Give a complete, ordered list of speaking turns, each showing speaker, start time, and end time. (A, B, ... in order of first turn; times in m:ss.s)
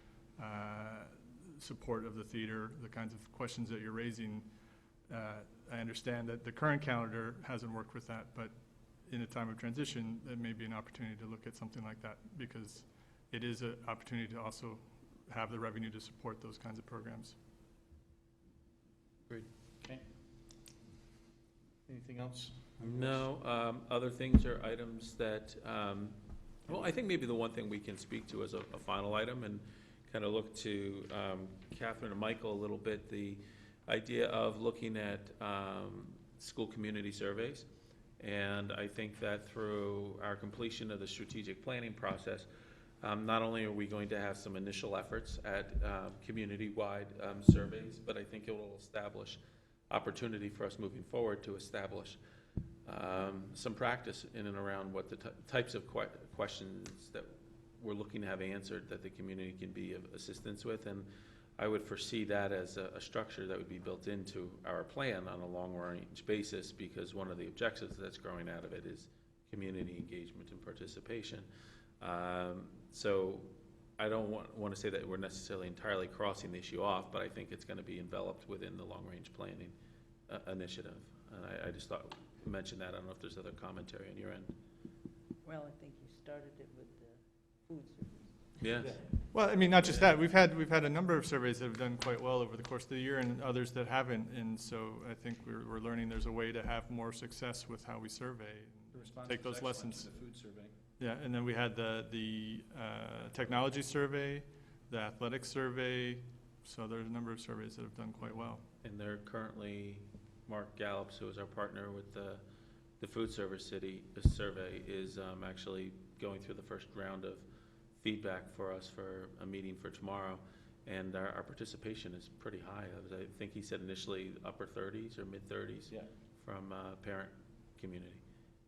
0:00.4-0:04.5 A
0:05.1-0:08.6 A
0:09.1-0:17.4 A
0:21.9-0:23.3 B
0:22.8-0:37.7 C
0:38.2-0:42.5 C
0:43.0-0:52.2 C
0:52.9-1:11.5 C
1:12.0-1:19.8 C
1:20.3-1:24.5 C
1:25.4-1:28.4 D
1:28.6-1:29.0 C
1:29.3-1:40.1 A
1:38.9-1:40.8 B
1:41.0-1:48.6 A
1:48.8-1:52.4 C
1:53.0-2:08.2 C